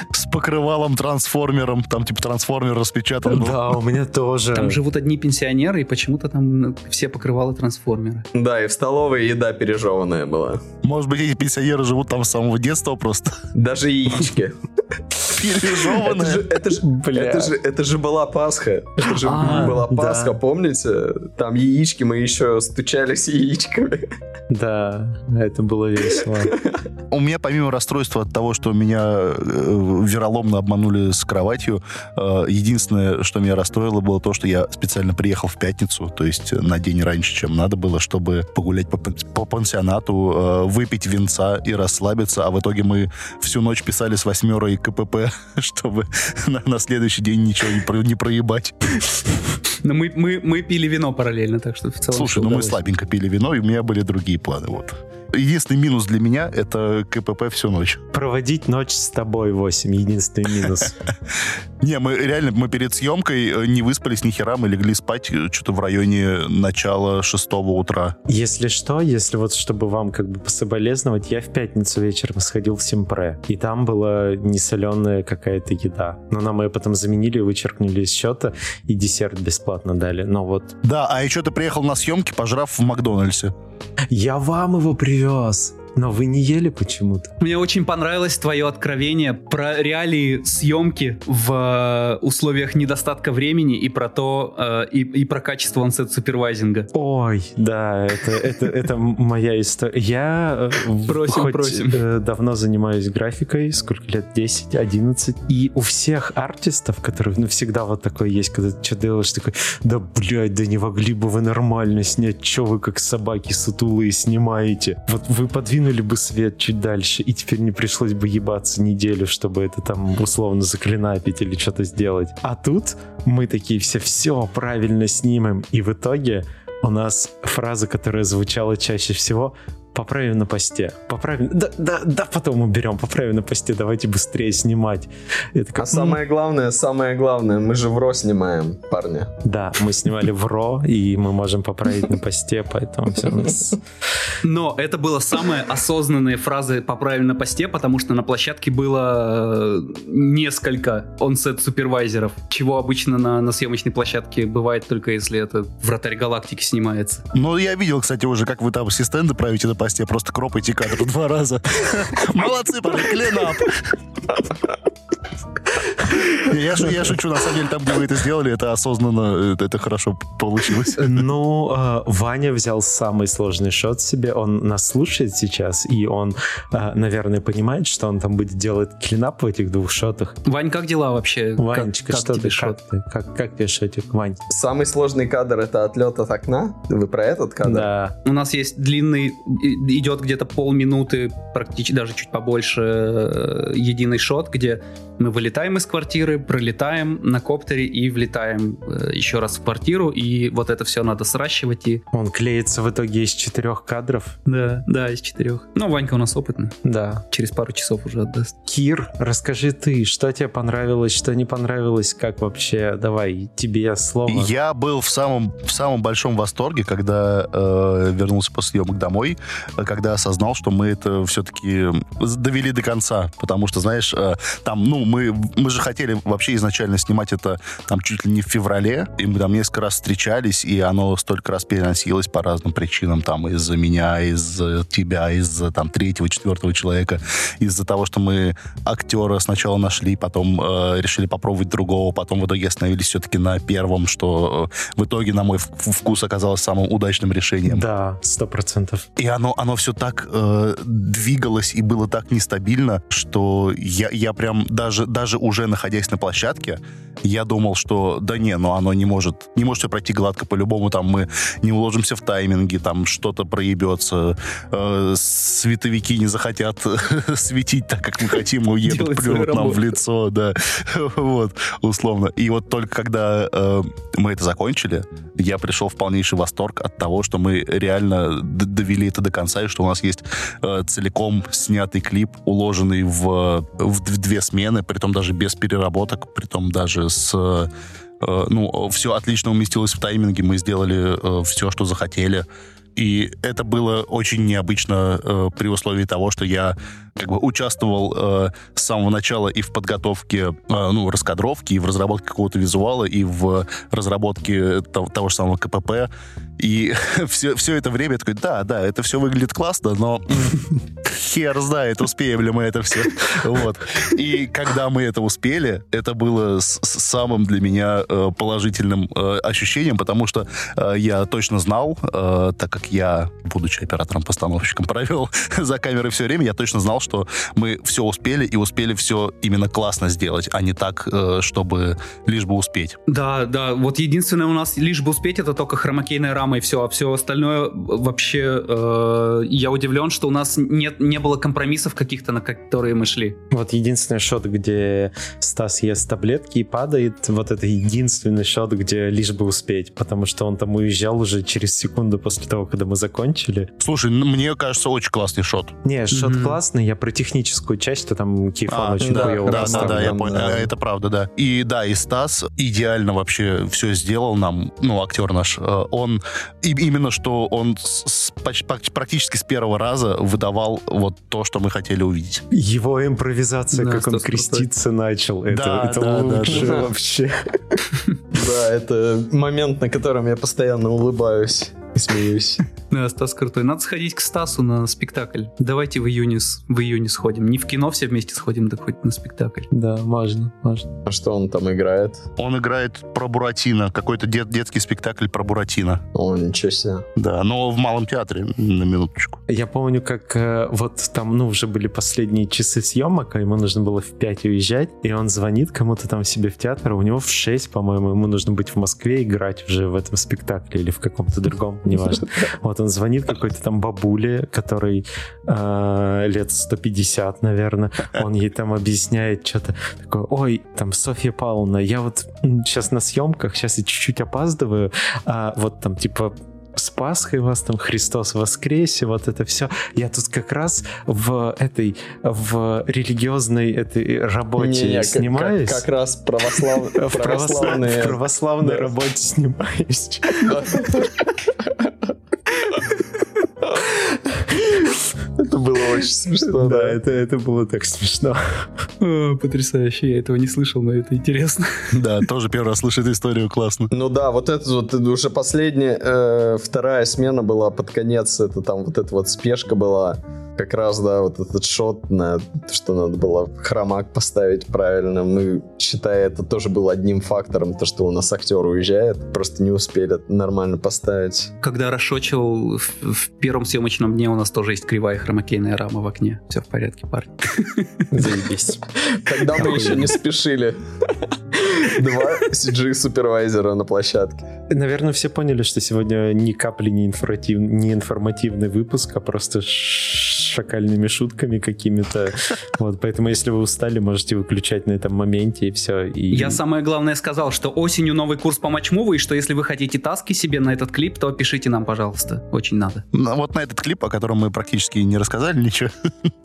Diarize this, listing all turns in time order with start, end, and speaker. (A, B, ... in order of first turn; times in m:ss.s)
0:00.1-0:03.6 A
0:03.2-0:04.8 B
0:04.5-0:08.3 C
0:08.3-0:10.6 D
0:10.8-0:13.4 A
0:13.5-0:14.6 D
0:15.3-0:16.5 A
0:15.6-0:24.1 D
0:16.8-0:17.6 B
0:19.2-0:19.8 C
0:19.2-0:20.4 B
0:24.5-0:26.6 B
0:27.1-0:48.8 A
0:49.8-0:52.8 C
0:52.1-0:58.0 A
0:58.1-1:01.0 B
1:01.8-1:08.2 A
1:08.3-1:20.8 B
1:20.8-1:23.5 A
1:24.1-1:27.3 B
1:27.4-1:36.9 C
1:36.9-2:16.2 B
1:41.1-1:42.0 C
2:15.8-2:19.3 D
2:19.4-2:23.8 B
2:24.4-2:37.2 C
2:37.3-2:43.8 A
2:46.3-2:51.2 A
2:51.0-3:00.4 B
3:00.4-3:02.8 C
3:01.6-3:04.4 B
3:04.5-3:07.9 D
3:07.6-3:08.2 B
3:08.2-3:22.0 C
3:22.1-3:24.4 B
3:24.5-3:26.8 C
3:26.8-3:27.2 B
3:27.3-3:28.6 C
3:28.7-3:34.5 B
3:34.3-4:07.8 A
4:07.7-4:09.1 B
4:09.2-4:47.7 A
4:28.8-4:29.9 C
4:48.2-5:33.0 A
5:33.1-5:43.4 C
5:43.5-5:53.7 B
5:53.8-5:55.8 A
5:55.8-6:00.7 B
5:56.1-5:56.6 C
5:58.7-6:12.4 A
5:59.0-6:00.3 D
6:12.5-6:17.8 B
6:13.7-6:14.7 C
6:15.5-6:16.8 A
6:16.5-6:16.9 D
6:18.3-6:22.6 D
6:22.9-6:29.7 C
6:29.7-6:30.9 B
6:31.0-6:32.3 D
6:32.4-6:36.0 A
6:36.1-6:37.0 D
6:37.2-6:39.4 A
6:39.5-7:15.8 B
7:14.6-7:18.9 D
7:16.8-7:20.9 B
7:20.4-7:21.9 D
7:25.4-7:27.0 D
7:26.4-7:28.7 B
7:29.0-7:31.9 C
7:31.9-7:33.9 A
7:33.9-7:51.5 D
7:51.6-7:58.0 C
7:58.1-7:58.9 B
7:59.1-8:00.8 D
7:59.6-8:00.1 B
8:01.5-8:04.5 D
8:04.7-8:16.6 B
8:16.3-8:23.0 C
8:23.1-8:26.3 A